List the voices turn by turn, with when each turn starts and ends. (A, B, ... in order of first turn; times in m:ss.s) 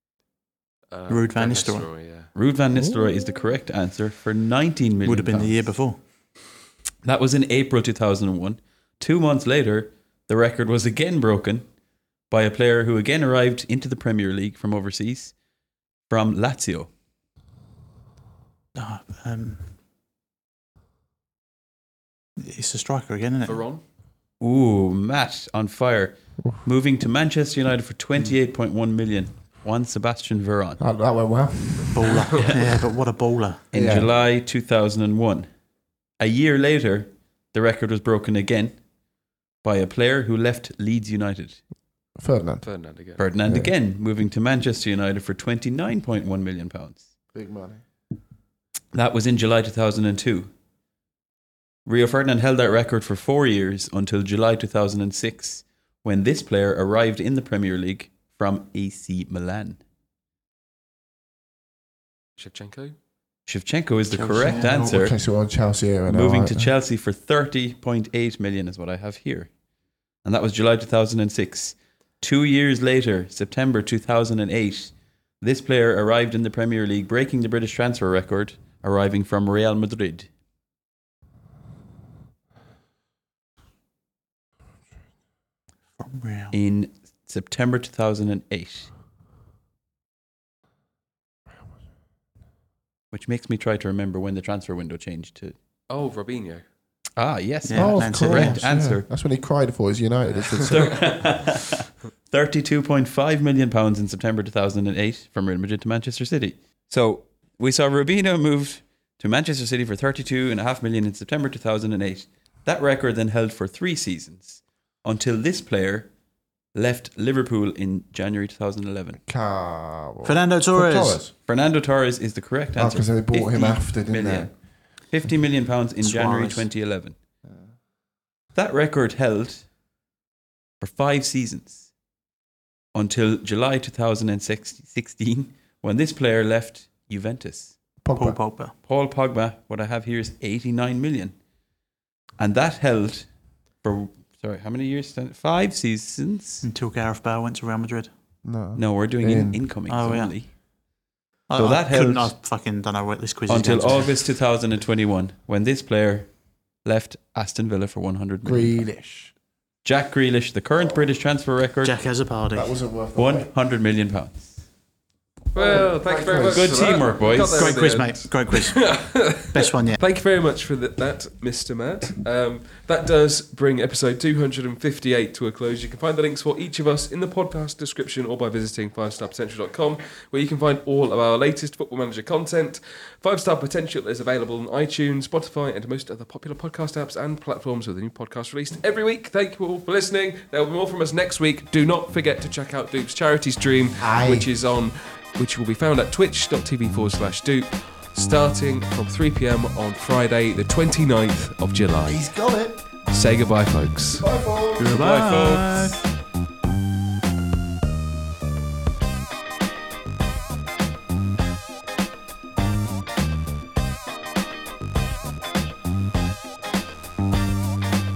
0:00.9-0:02.3 A
0:01.1-0:01.9 B
0:02.3-0:05.8 C
0:05.0-0:06.0 B
0:07.0-0:11.7 C
0:12.3-0:15.4 C
0:16.1-0:16.9 C
0:18.8-0:19.7 B
0:22.4-0:23.6 B
0:23.5-0:23.8 A
0:24.4-0:30.8 C
0:30.8-0:32.1 D
0:31.9-0:33.6 B
0:33.7-0:35.5 C
0:33.7-0:34.1 D
0:36.2-0:38.8 C
0:39.6-0:41.6 C
0:42.2-0:42.6 D
0:42.6-0:43.2 A
0:43.2-0:47.0 C
0:43.4-0:43.7 D
0:47.3-0:47.8 D
0:48.9-0:50.5 C
0:51.8-0:59.8 C
1:02.4-1:03.0 A
1:03.5-1:05.2 C
1:04.1-1:05.0 B
1:04.5-1:06.7 D
1:06.1-1:09.5 C
1:10.2-1:20.3 C
1:26.0-1:26.6 B
1:26.5-1:28.9 C
1:33.1-1:35.6 C
1:35.9-1:36.6 A
1:37.2-1:39.1 C
1:37.7-1:38.6 B
1:37.8-1:41.2 D
1:40.6-1:56.1 C
1:56.7-1:59.2 C
1:59.3-2:01.3 D
2:00.2-2:01.2 B
2:01.4-2:04.5 C
2:02.8-2:04.5 D
2:05.0-2:07.2 C
2:06.0-2:06.7 B
2:08.6-2:09.6 C
2:10.8-2:11.9 C
2:12.9-2:17.8 C
2:18.0-2:18.4 D
2:18.2-2:18.8 B
2:18.8-2:21.4 C
2:22.4-2:23.3 C
2:23.8-2:26.6 C
2:26.6-2:28.1 B
2:28.4-2:29.6 D
2:28.8-2:30.5 C
2:29.9-2:30.3 B
2:31.5-2:34.2 B
2:31.6-2:32.3 C
2:33.5-2:38.8 C
2:38.4-2:39.3 D
2:39.8-2:42.0 C
2:40.8-2:41.1 D
2:41.8-2:42.8 B
2:42.5-2:43.5 D
2:43.2-2:44.6 C
2:45.5-2:47.0 D
2:45.5-3:22.3 A
2:46.4-2:47.7 C
2:47.2-2:50.0 B
3:14.0-3:14.5 D
3:22.0-3:22.8 D
3:23.1-3:24.3 A
3:24.2-3:25.0 D
3:24.8-3:26.0 B
3:24.8-3:26.0 C